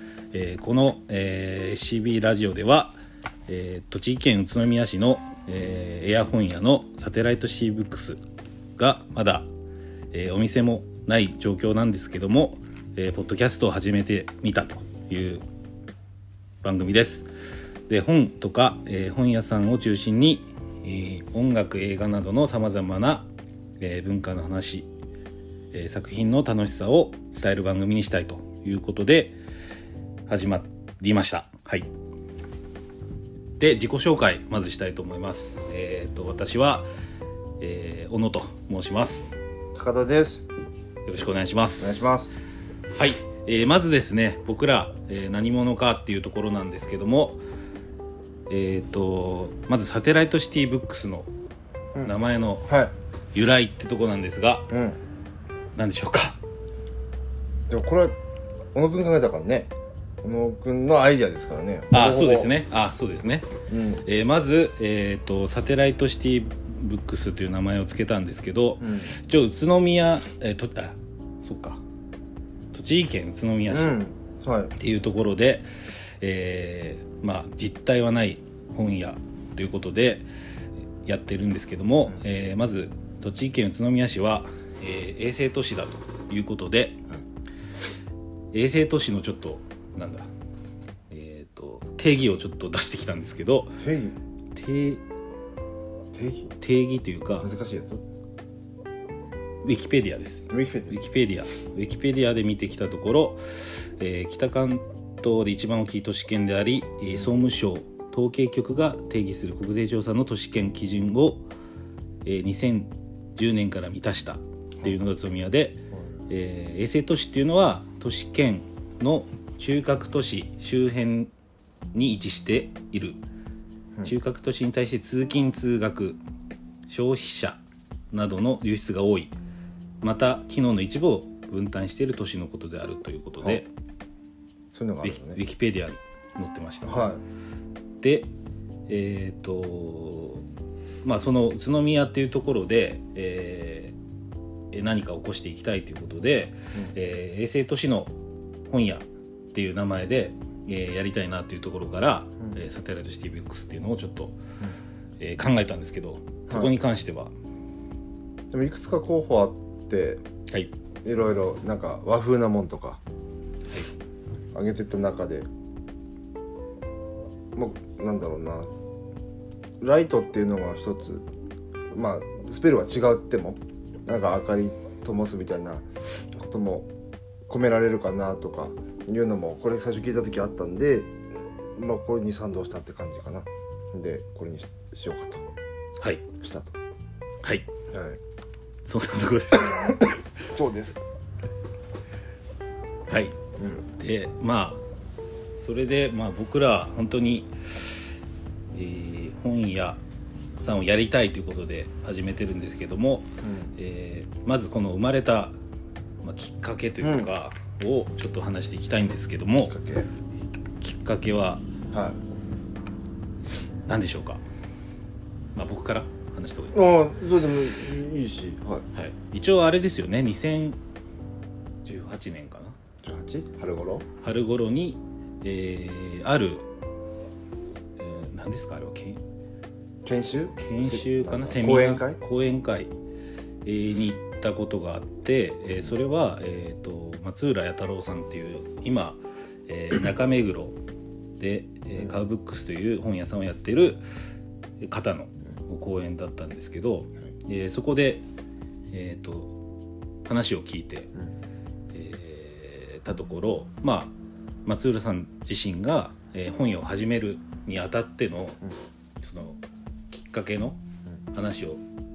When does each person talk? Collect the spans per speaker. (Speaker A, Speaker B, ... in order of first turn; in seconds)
Speaker A: 0.3-3.0, 3.5-8.2, 8.8-9.5, 10.1-15.4, 16.6-17.3, 17.9-23.3, 23.8-24.9, 25.7-29.4, 30.3-31.9, 33.6-36.9, 37.6-39.4, 41.1-42.2, 43.0-47.4, 48.5-51.3, 52.0-52.7, 53.3-54.7, 55.8-56.4, 61.9-63.5, 64.0-71.8, 72.7-74.0, 74.8-80.3, 81.0-87.0, 88.5-90.3, 91.1-93.8, 94.5-95.0, 96.6-97.5, 99.6-111.5, 112.2-121.3, 121.9-123.2, 124.0-126.2, 126.9-129.3, 130.0-133.7, 135.0-137.1, 138.0-138.3, 138.9-140.4, 141.0-144.0, 144.7-148.1, 148.7-154.4, 155.2-157.3, 186.0-186.3, 188.9-190.2, 193.1-193.4, 193.9-194.8, 195.6-198.1, 198.7-200.0, 200.6-205.6, 206.2-209.8, 210.8-211.7, 213.9-214.4, 215.6-216.8, 218.9-220.8, 221.8-222.8, 224.2-226.7, 228.0-229.2, 230.6-232.9, 233.7-240.8, 241.4-244.0, 244.8-248.3, 248.9-249.6, 250.3-251.1, 251.9-254.1, 254.7-258.6, 259.2-259.6, 260.1-260.8, 261.3-261.8
Speaker B: 39.8-40.5, 41.8-42.3, 52.7-52.9, 54.7-55.0, 57.7-58.2, 58.7-59.7, 60.2-62.5, 63.7-64.0, 68.8-69.1, 73.7-74.7, 93.8-94.2, 96.1-96.5, 97.4-98.0, 100.5-101.0, 134.7-135.4, 136.8-137.2, 158.5-160.2, 161.0-163.0, 164.5-165.5, 167.6-168.7, 169.8-171.2, 171.9-176.9, 177.5-181.2, 181.8-185.4, 186.4-186.8, 187.9-188.2, 189.6-191.0, 193.6-193.8, 203.4-203.7, 207.0-207.3, 209.7-210.1, 211.9-212.2, 216.7-218.8, 223.0-224.1, 230.0-232.2